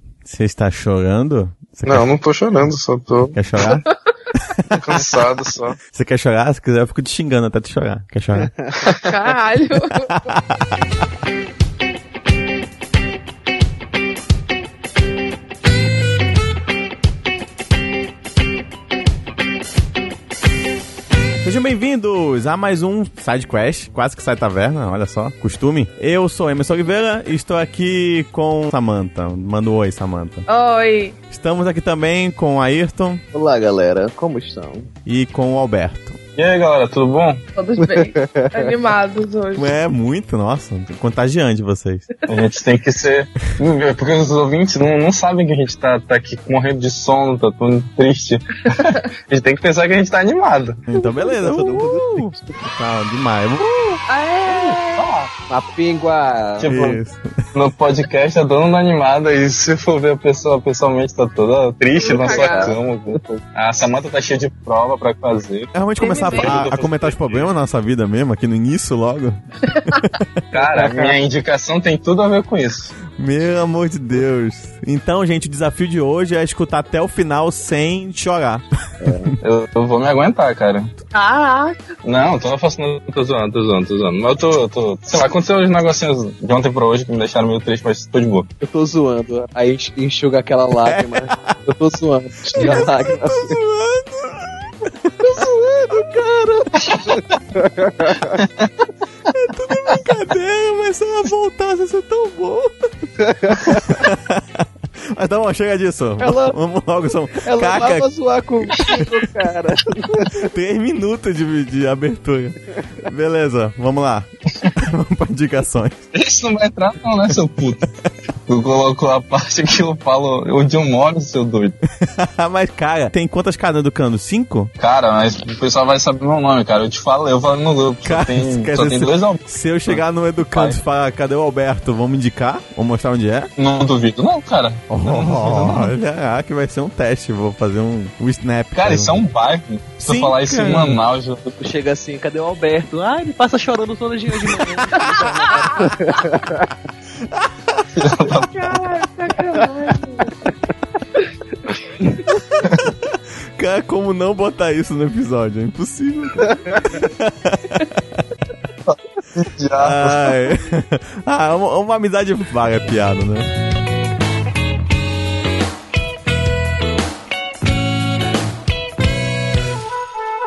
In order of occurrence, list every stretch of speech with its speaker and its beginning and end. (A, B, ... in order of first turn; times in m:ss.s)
0:00.2-0:02.1 A
0:01.8-0:03.4 B
0:03.3-0:03.8 A
0:04.7-0:05.0 C
0:04.8-0:05.8 B
0:05.9-0:08.5 A
0:08.4-0:08.7 C
0:09.1-0:10.2 D
0:10.1-0:10.8 A
0:21.4-0:30.4 A
0:30.5-0:31.2 D
0:31.3-0:33.2 A
0:33.3-0:34.9 C
0:35.0-0:36.2 A
0:36.4-0:37.4 B
0:37.6-0:39.7 D
0:37.8-0:38.7 C
0:39.6-0:42.1 A
0:42.3-0:50.8 B
0:50.9-0:53.7 A
0:51.3-0:52.5 C
0:54.1-0:55.0 D
0:54.5-0:54.8 C
0:55.0-0:55.3 B
0:55.5-0:56.7 C
0:56.6-0:57.0 B
0:56.7-0:57.3 A
0:57.5-1:07.5 B
1:02.0-1:02.7 D
1:02.0-1:03.2 C
1:05.7-1:10.2 A
1:06.0-1:06.6 D
1:09.8-1:10.0 D
1:10.5-1:11.2 C
1:10.5-1:12.9 B
1:13.1-1:19.3 A
1:19.0-1:19.3 C
1:19.4-1:20.9 B
1:21.1-1:21.8 D
1:22.0-1:28.5 B
1:28.6-1:33.6 C
1:30.8-1:31.6 A
1:32.5-1:35.1 A
1:35.2-1:38.4 C
1:38.4-1:38.7 B
1:39.3-1:42.8 A
1:43.2-1:44.0 C
1:43.7-1:48.1 A
1:46.2-1:46.5 C
1:47.4-1:50.5 C
1:50.3-1:56.0 A
1:56.1-1:57.9 B
1:58.5-2:01.8 B
2:02.0-2:04.7 A
2:04.8-2:10.0 B
2:08.0-2:13.5 A
2:13.6-2:15.9 B
2:14.9-2:19.2 A
2:18.7-2:21.6 B
2:20.0-2:21.0 A
2:21.6-2:26.7 C
2:27.2-2:27.8 A
2:27.9-2:28.5 B
2:28.4-2:30.5 D
2:32.5-2:38.0 A
2:38.9-2:40.4 B
2:39.8-2:43.5 A